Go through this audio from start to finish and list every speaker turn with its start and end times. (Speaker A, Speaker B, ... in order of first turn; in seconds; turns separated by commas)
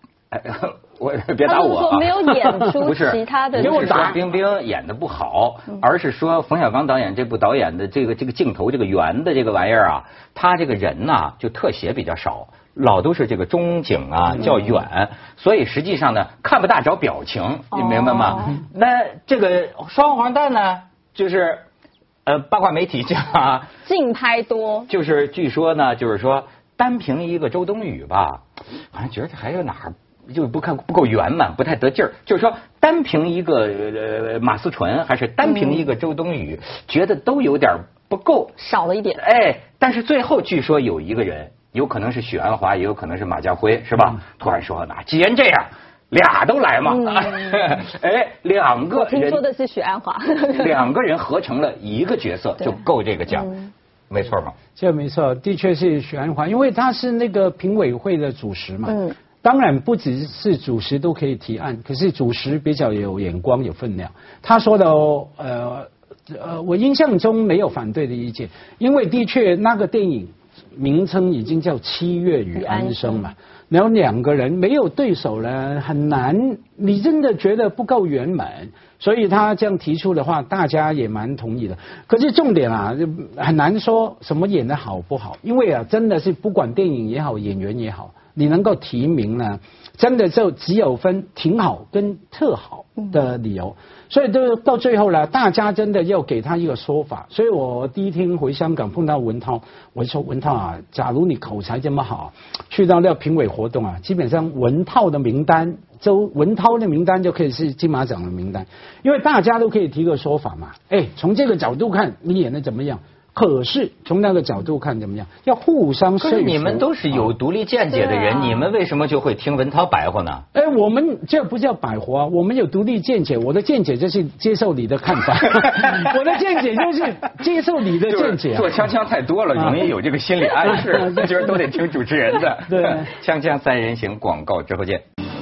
Speaker A: 0.3-21.6, Speaker B: 1.4-4.1, Speaker C: 3.6-4.2, Speaker B: 17.7-18.6, Speaker A: 22.2-23.7, Speaker B: 23.8-24.9, Speaker A: 24.9-28.4, Speaker A: 28.9-38.5, Speaker B: 35.5-35.8, Speaker B: 38.6-39.2, Speaker A: 39.1-49.4, Speaker B: 46.9-47.8, Speaker B: 48.9-50.8, Speaker A: 50.5-53.5, Speaker B: 52.6-53.7, Speaker A: 54.1-54.5, Speaker C: 54.8-117.3, Speaker B: 58.9-59.1, Speaker B: 72.5-73.3, Speaker A: 116.2-120.4, Speaker B: 117.9-118.7, Speaker C: 120.5-128.8, Speaker A: 128.1-135.0, Speaker C: 129.5-129.9, Speaker C: 130.6-131.6, Speaker C: 132.7-133.1